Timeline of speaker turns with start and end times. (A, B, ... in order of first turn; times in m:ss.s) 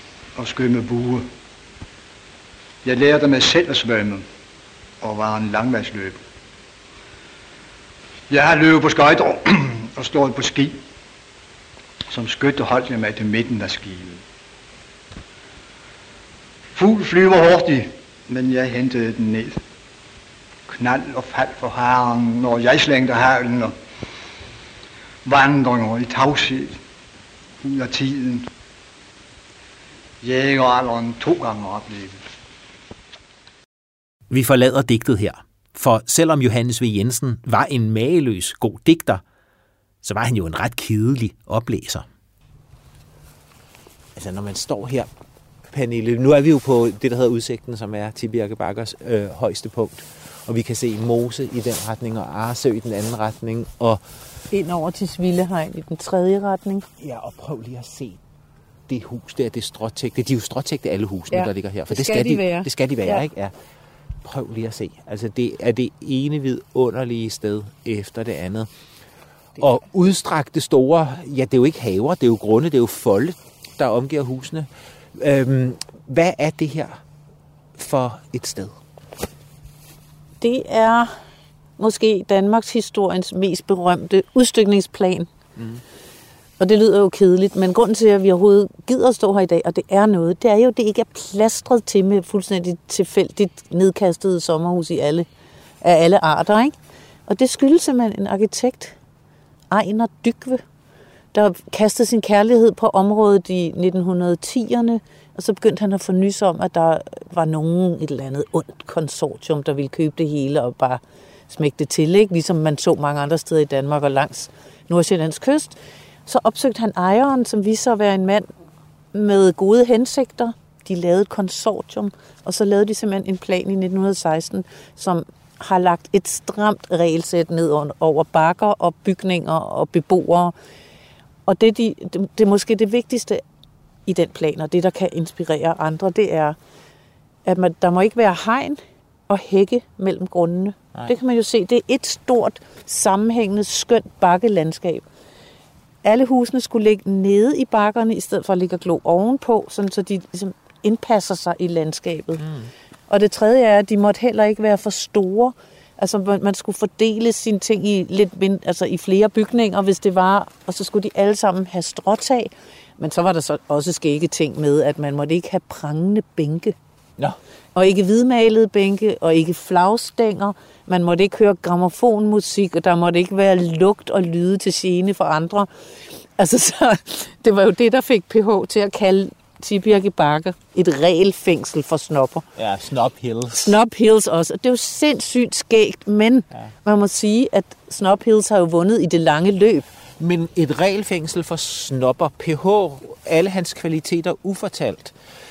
0:00.4-0:01.3 A
0:02.8-0:04.2 A
0:05.0-0:06.2 A
0:08.3-0:10.8 A
0:12.1-0:14.2 A
0:16.7-0:19.6 A
0:20.7-0:23.7 A
0:25.2-0:26.8 A
0:27.6-0:28.5 A
0:30.2-0:32.2 A
0:34.3-0:39.2 B
0:40.0-0:42.1 B
0:44.1-0:45.1 B
0:45.7-0:54.0 B
0:54.5-0:56.9 C
0:57.0-0:58.2 B
0:58.9-1:03.5 B
1:01.3-1:03.2 C
1:04.2-1:08.7 B
1:09.6-1:17.0 B
1:17.8-1:18.8 B
1:20.4-1:21.1 C
1:21.8-1:25.3 C
1:25.6-1:25.8 B
1:26.6-1:35.3 C
1:35.8-1:36.7 C
1:37.3-1:39.0 C
1:39.7-1:40.6 C
1:41.3-1:58.5 C
1:59.1-2:10.5 C
2:11.5-2:13.4 C
2:14.0-2:16.6 C
2:17.4-2:25.0 C
2:26.0-2:32.5 C
2:32.4-2:32.7 B
2:33.1-2:46.7 C
2:47.7-3:02.4 C
3:02.6-3:03.8 B
3:03.6-3:09.9 C
3:10.2-3:15.1 B